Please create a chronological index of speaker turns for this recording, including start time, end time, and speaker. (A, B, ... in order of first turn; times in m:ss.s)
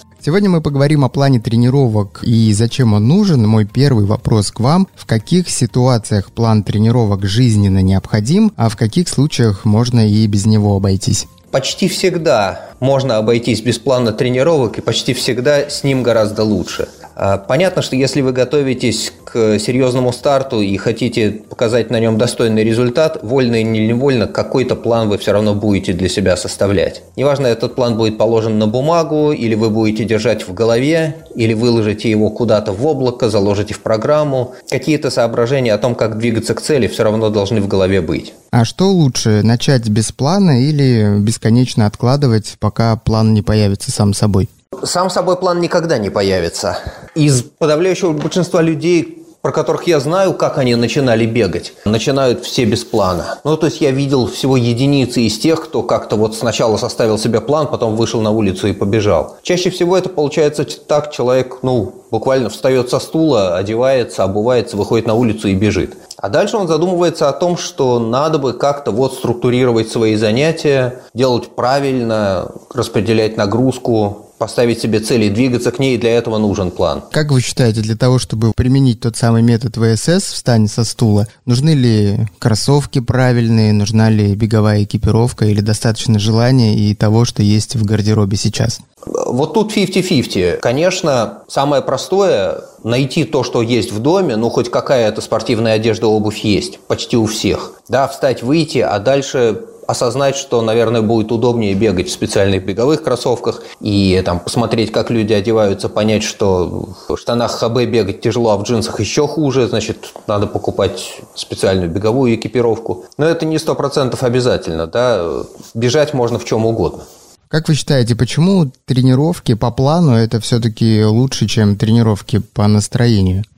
0:00.2-0:11.3 A
0:11.5-0:38.3 B
0:38.5-0:44.5 A
0:44.8-1:17.1 B
1:17.1-1:28.8 A
1:29.1-1:57.0 B
1:57.5-2:03.4 A